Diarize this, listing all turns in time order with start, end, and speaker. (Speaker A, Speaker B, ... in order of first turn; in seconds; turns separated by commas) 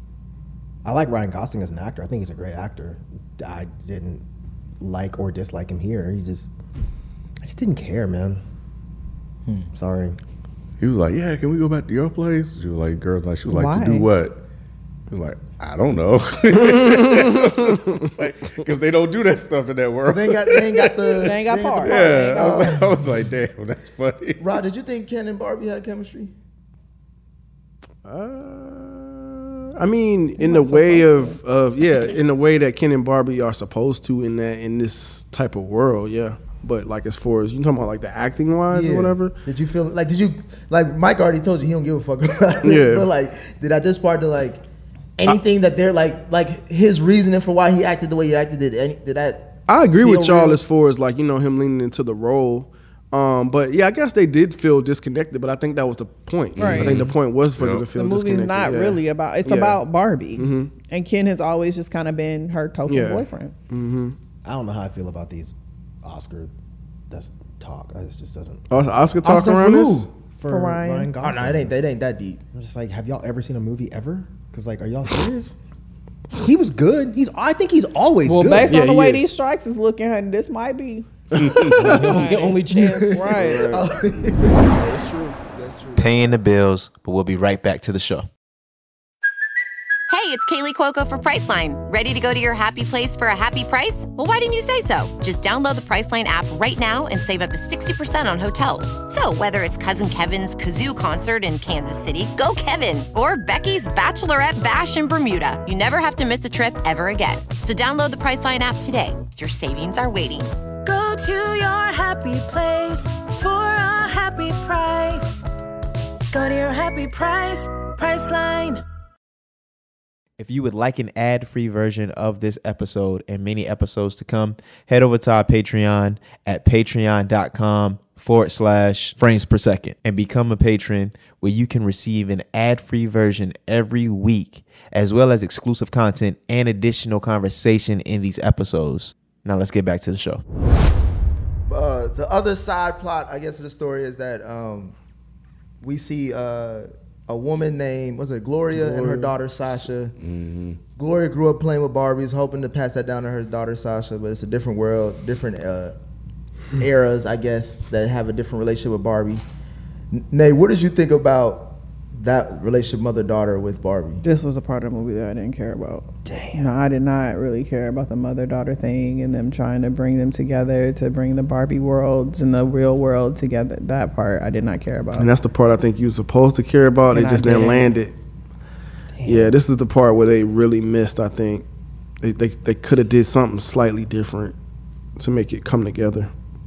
Speaker A: 0.8-4.2, Speaker A: 4.8-6.5, Speaker A: 7.4-8.4, Speaker A: 9.7-10.2, Speaker B: 10.8-14.4, Speaker C: 13.5-14.1, Speaker B: 15.1-24.5, Speaker D: 16.5-17.9, Speaker E: 20.1-23.1, Speaker C: 21.2-22.7, Speaker E: 24.4-26.3, Speaker D: 28.1-39.4, Speaker C: 30.4-31.4, Speaker E: 38.7-44.6, Speaker D: 42.6-43.1, Speaker E: 45.2-50.6, Speaker D: 49.7-59.8, Speaker B: 56.6-57.9, Speaker C: 56.6-57.1, Speaker C: 58.0-63.5, Speaker D: 60.4-60.7, Speaker D: 62.9-64.2, Speaker A: 64.5-66.5, Speaker A: 67.1-68.6, Speaker D: 68.7-70.1, Speaker E: 69.2-70.1, Speaker A: 70.3-71.7, Speaker C: 70.5-71.1, Speaker E: 71.2-72.4, Speaker A: 72.5-75.5, Speaker A: 76.3-78.8, Speaker C: 78.2-83.7, Speaker D: 78.7-79.3, Speaker B: 81.4-81.7, Speaker A: 81.6-83.4, Speaker D: 81.8-82.1, Speaker E: 82.8-84.9, Speaker D: 83.3-83.9, Speaker D: 84.7-85.4, Speaker E: 85.5-86.4, Speaker F: 86.0-88.3, Speaker G: 90.1-110.5, Speaker H: 110.8-115.4, Speaker H: 116.3-118.8, Speaker F: 120.4-140.4, Speaker E: 141.7-144.9, Speaker E: 145.8-150.2, Speaker D: 148.7-149.4, Speaker B: 150.2-150.8, Speaker E: 151.0-155.9, Speaker E: 156.8-159.4, Speaker E: 160.1-164.2, Speaker C: 164.2-175.3, Speaker D: 175.2-178.2, Speaker C: 177.1-177.9, Speaker A: 179.2-179.5, Speaker D: 179.2-181.7, Speaker D: 182.2-184.6, Speaker D: 185.2-186.3